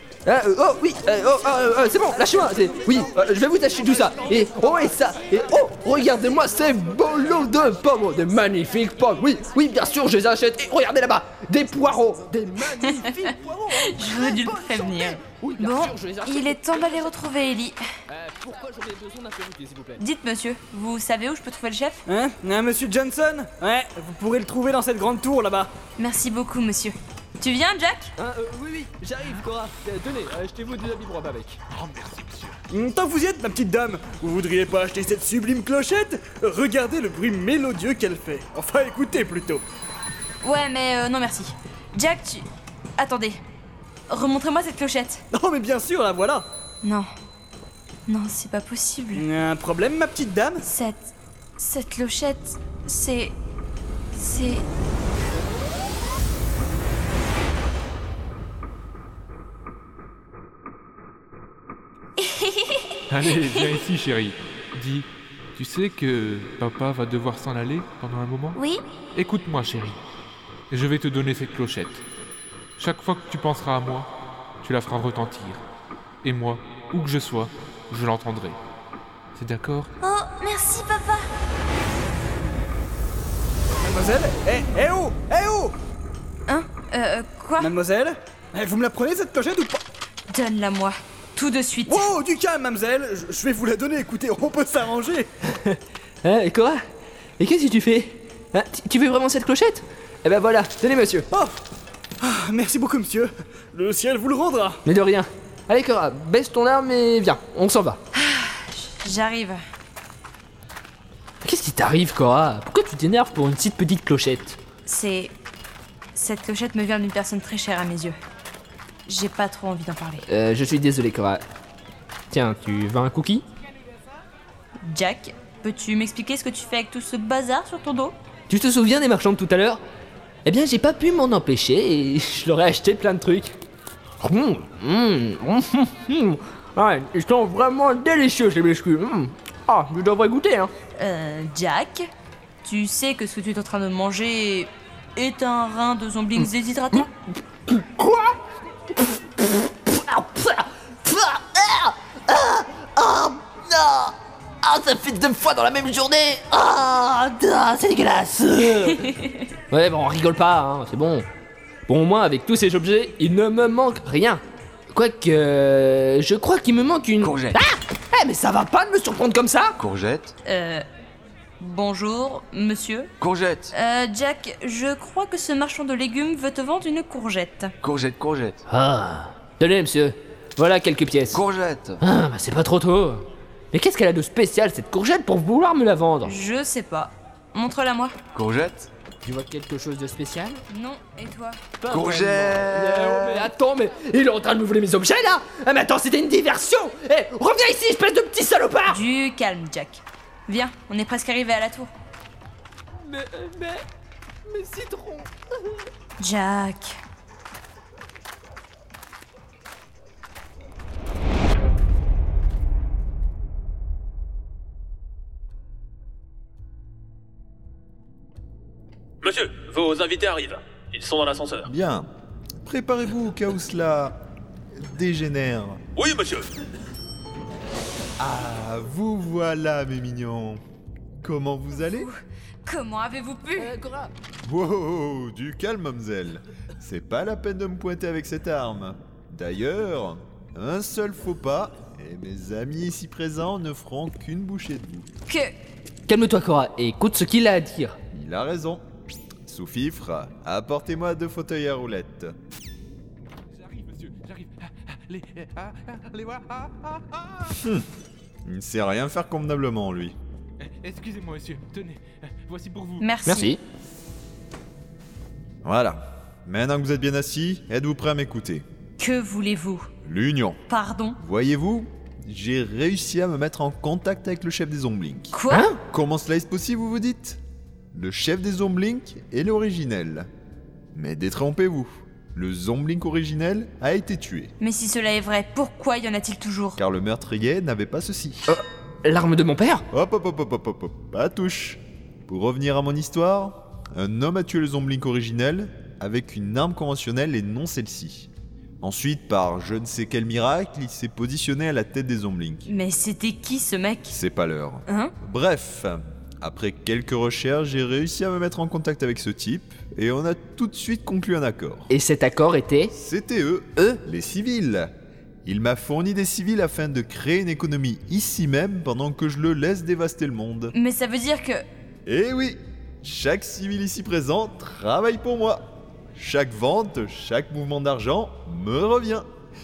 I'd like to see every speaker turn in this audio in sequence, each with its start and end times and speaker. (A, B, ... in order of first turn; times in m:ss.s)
0:00.2-0:17.1 A
0:12.8-0:13.1 B
0:13.7-0:17.8 B
0:18.1-0:20.0 A
0:20.0-0:22.0 B
0:22.1-0:25.7 C
0:26.0-0:28.1 B
0:28.2-0:31.6 A
0:31.7-0:32.6 D
0:32.7-0:39.6 C
0:40.4-0:43.4 B
0:44.1-0:45.2 B
0:45.3-0:46.5 C
0:46.8-0:47.1 B
0:48.1-0:49.3 B
0:49.2-0:50.6 C
0:50.6-0:53.4 B
0:54.1-0:54.6 B
1:02.2-1:03.6 B
1:03.1-1:08.6 D
1:09.2-1:10.0 D
1:10.7-1:12.0 D
1:12.8-1:14.1 D
1:14.6-1:15.6 D
1:16.2-1:18.6 D
1:19.4-1:19.9 D
1:20.0-1:21.3 B
1:23.8-1:25.8 C
1:26.5-1:27.7 B
1:27.6-1:29.8 C
1:30.3-1:32.1 B
1:31.9-1:35.3 C
1:35.5-1:36.8 A
1:37.4-1:41.3 A
1:42.2-1:44.8 C
1:44.8-1:48.0 A
1:48.1-1:49.6 B
1:51.4-1:54.6 A
1:54.9-1:55.3 B
1:56.2-1:58.2 B
1:59.1-2:00.2 B
2:00.3-2:01.4 A
2:02.3-2:03.5 A
2:04.8-2:08.2 B
2:08.5-2:09.8 A
2:10.4-2:13.6 A
2:14.2-2:20.7 A
2:21.0-2:22.1 B
2:22.6-2:27.1 B
2:27.6-2:28.4 A
2:28.9-2:39.2 A
2:39.0-2:39.5 B
2:39.7-2:41.3 A
2:41.9-2:49.8 A
2:47.2-2:47.6 E
2:49.8-2:50.3 E
2:50.4-2:50.8 B
2:51.6-2:53.1 B
2:53.2-2:53.7 E
2:53.7-2:57.7 B
2:57.8-2:58.6 E
2:58.7-3:01.4 A
3:01.3-3:02.0 E
3:02.0-3:06.4 A
3:06.2-3:08.1 B
3:08.4-3:08.9 E
3:09.2-3:10.6 A
3:10.7-3:11.6 B
3:11.8-3:19.0 A
3:11.9-3:13.5 E
3:18.9-3:21.9 B
3:23.0-3:23.8 A
3:24.5-3:25.6 A
3:26.2-3:27.0 B
3:39.2-3:41.7 F
3:41.7-3:42.1 G
3:42.6-3:44.2 G
3:44.8-3:45.8 G
3:46.0-3:46.5 F
3:48.2-3:50.6 G
3:51.2-3:52.1 G
3:51.8-3:52.1 B
3:52.6-3:53.8 B
3:53.6-3:54.1 A
3:54.4-4:05.1 G
4:05.3-4:05.5 B
4:06.1-4:08.0 A
4:08.1-4:08.8 G
4:09.5-4:12.3 G
4:13.6-4:17.5 D
4:17.6-4:17.8 G
4:18.5-4:20.2 G
4:20.6-4:23.2 D
4:23.0-4:23.6 B
4:23.2-4:23.6 A
4:25.6-4:28.6 G
4:29.0-4:29.9 B
4:30.0-4:30.6 G
4:30.7-4:31.2 B
4:31.2-4:37.4 G
4:35.3-4:35.8 B
4:35.5-4:35.8 A
4:37.9-4:40.3 G
4:40.9-4:44.5 G
4:44.6-4:46.8 B
4:46.8-4:48.5 G
4:48.5-4:49.8 A
4:49.9-4:58.3 G
4:58.8-5:02.7 G
5:02.7-5:04.2 B
5:04.1-5:11.9 G
5:04.9-5:05.1 B
5:11.9-5:12.9 A
5:12.9-5:14.9 G
5:15.5-5:20.7 G
5:20.7-5:21.6 B
5:22.1-5:29.3 G